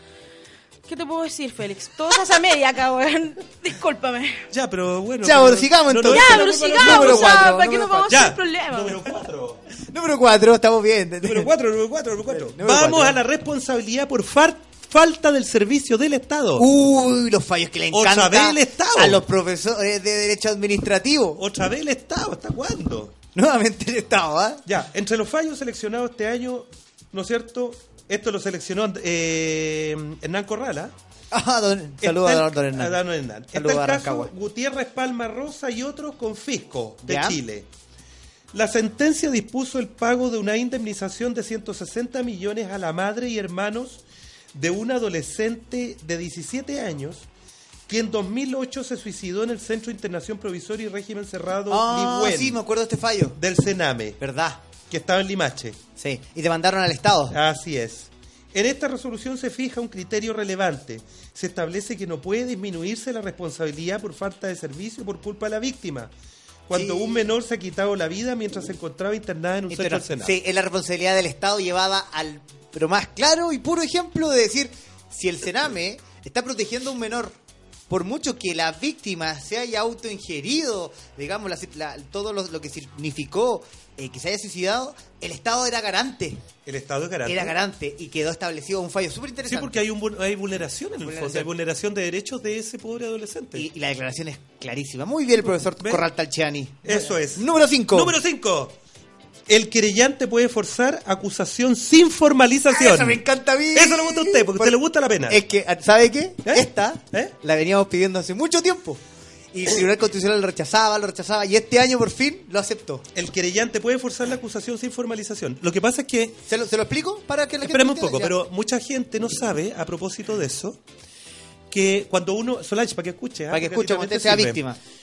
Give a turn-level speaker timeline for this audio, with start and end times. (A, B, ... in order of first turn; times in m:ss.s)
0:00.8-0:04.4 A
0:04.5-0:07.6 B
0:05.2-0:08.2 C
0:06.1-0:09.0 A
0:08.1-0:09.6 B
0:09.8-0:11.5 C
0:11.2-0:16.7 B
0:12.3-0:13.2 C
0:16.6-0:21.4 C
0:17.9-0:19.2 B
0:21.4-0:23.1 B
0:23.3-0:24.6 C
0:24.6-0:30.9 B
0:31.3-0:33.0 C
0:32.0-0:37.7 B
0:33.5-0:34.3 C
0:37.0-0:37.4 C
0:38.5-0:44.0 B
0:44.5-0:47.3 B
0:47.9-0:52.6 B
0:51.7-0:53.4 C
0:53.4-0:54.2 B
0:54.2-0:54.6 C
0:54.9-0:55.8 B
0:56.0-0:57.4 C
0:57.3-1:06.1 B
1:06.7-1:10.4 B
1:06.7-1:07.2 C
1:09.7-1:17.4 C
1:17.9-1:26.4 C
1:26.6-1:27.6 B
1:27.2-1:29.8 C
1:29.4-1:33.7 B
1:31.0-1:31.5 C
1:33.5-1:38.2 C
1:35.8-1:36.0 B
1:36.8-1:38.8 B
1:39.5-1:43.2 B
1:42.7-1:49.0 C
1:43.7-1:45.4 B
1:46.4-1:47.3 B
1:49.5-1:53.0 C
1:53.1-1:56.4 B
1:56.5-1:58.4 C
1:57.6-2:00.8 B
2:01.7-2:04.6 B
2:03.5-2:04.8 C